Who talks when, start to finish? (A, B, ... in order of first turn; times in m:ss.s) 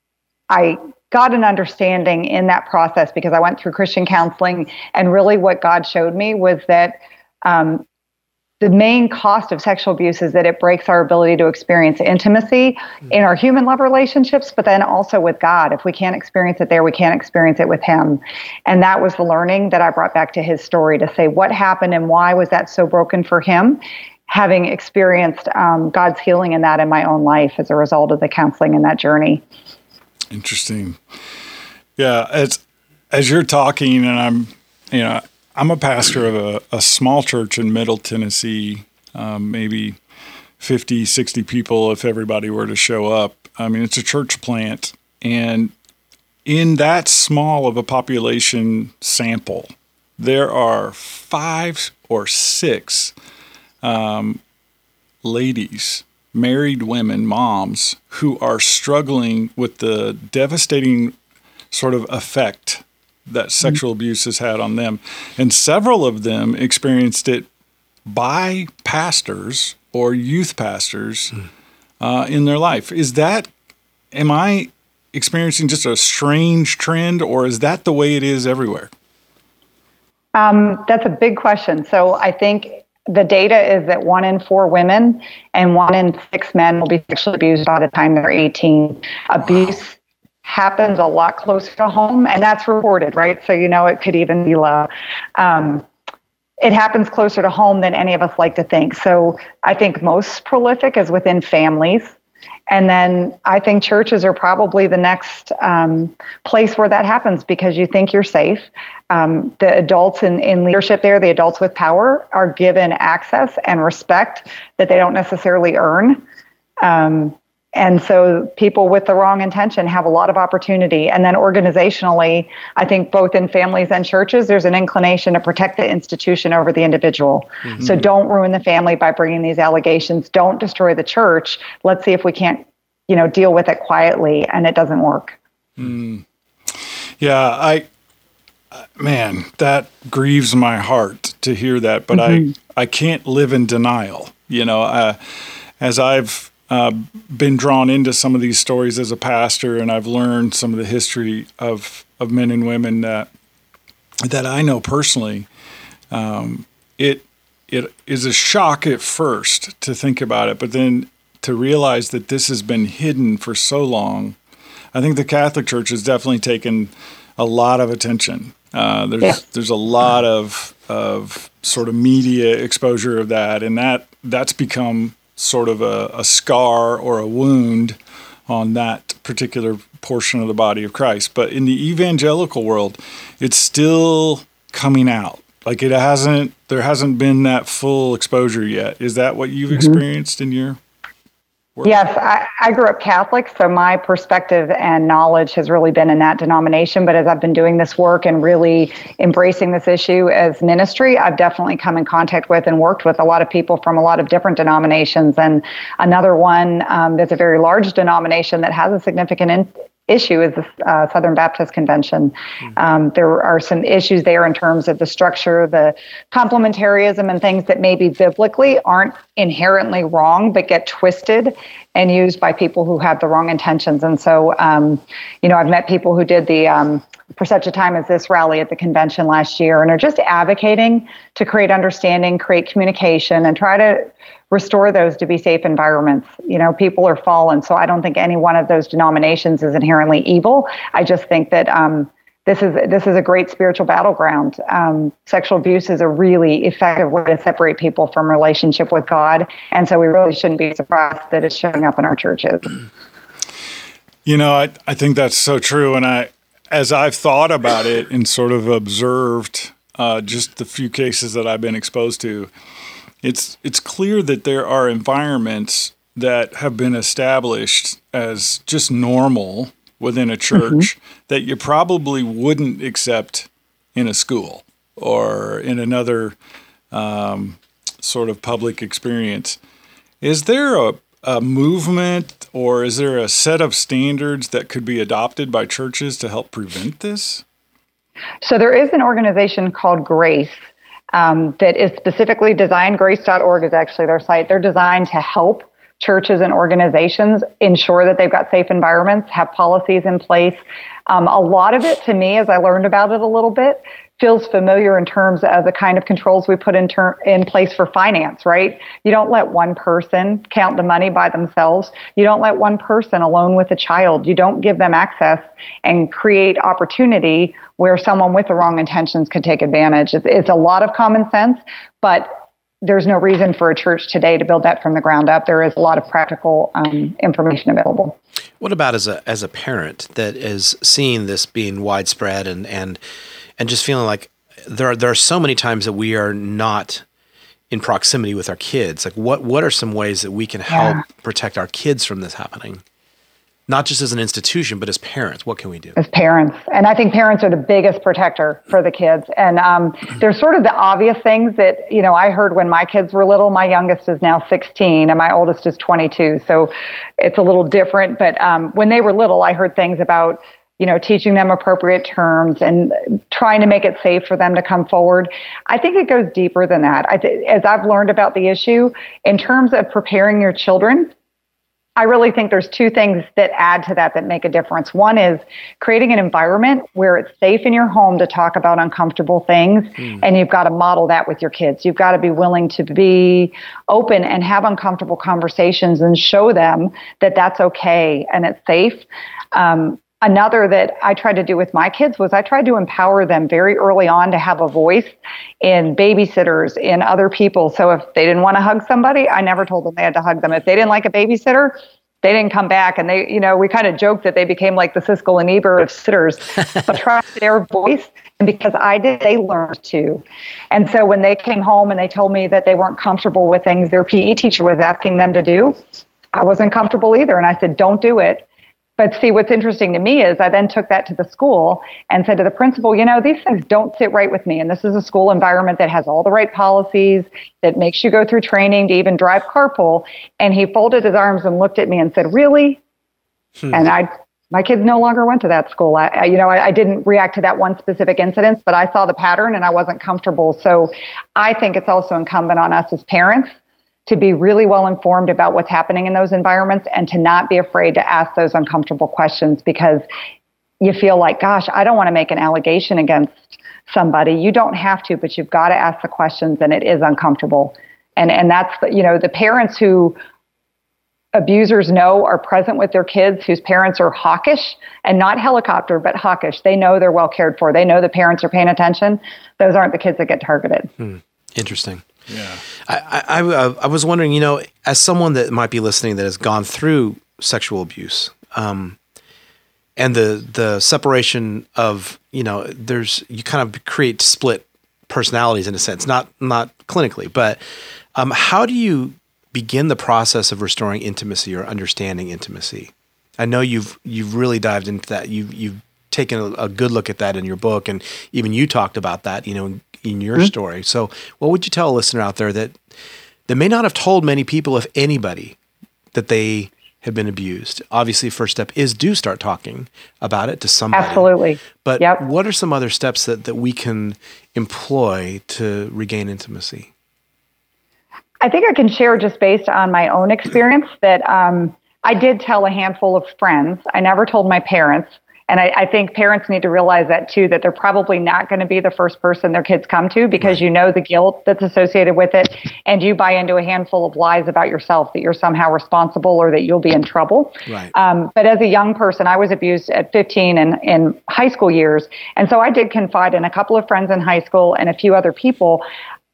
0:00.5-0:07.8 A
0:08.6-0:29.4 A
0:30.3-0:31.0 B
0:32.0-0:32.6 B
0:33.1-0:40.0 B
0:40.6-0:45.7 B
0:46.5-0:53.1 B
0:53.8-0:54.4 B
0:55.2-1:01.2 B
1:01.7-1:07.5 B
1:08.1-1:11.4 B
1:12.0-1:13.5 B
1:14.1-1:18.9 B
1:20.4-1:35.8 A
1:36.6-1:42.1 A
1:42.7-1:56.2 A
1:56.8-2:15.4 A
2:15.8-2:16.2 B
2:17.2-2:17.9 B
2:19.0-2:25.2 B
2:22.1-2:22.5 A
2:25.8-2:33.3 B
2:34.2-2:35.5 B
2:36.1-2:44.4 B
2:44.9-2:58.0 B
2:58.5-3:10.8 B
3:09.7-3:10.0 A
3:11.8-3:12.0 B
3:11.8-4:12.7 A
4:14.2-4:22.5 B
4:23.2-4:36.4 B
4:30.6-4:30.9 A
4:36.9-4:39.6 B
4:40.2-4:47.4 B
4:48.4-4:50.5 A
4:51.1-5:28.2 A
5:28.6-5:33.0 C
5:33.6-5:37.0 C
5:37.7-5:42.8 C
5:40.7-5:41.0 A
5:43.7-5:46.0 C
5:46.0-6:11.1 A
6:12.0-6:55.8 A
6:56.3-6:58.5 A
6:59.0-7:12.8 A
7:13.7-7:23.5 A
7:24.1-7:30.0 A
7:30.8-7:40.2 A
7:41.3-7:50.9 A
7:51.0-7:52.0 C
7:52.3-7:52.6 B
7:52.8-7:59.0 C
8:00.0-8:07.6 C
8:08.1-8:22.8 C
8:23.5-8:25.6 C
8:26.1-8:36.9 C
8:30.9-8:32.2 A
8:38.4-9:05.8 A
8:57.6-8:57.9 C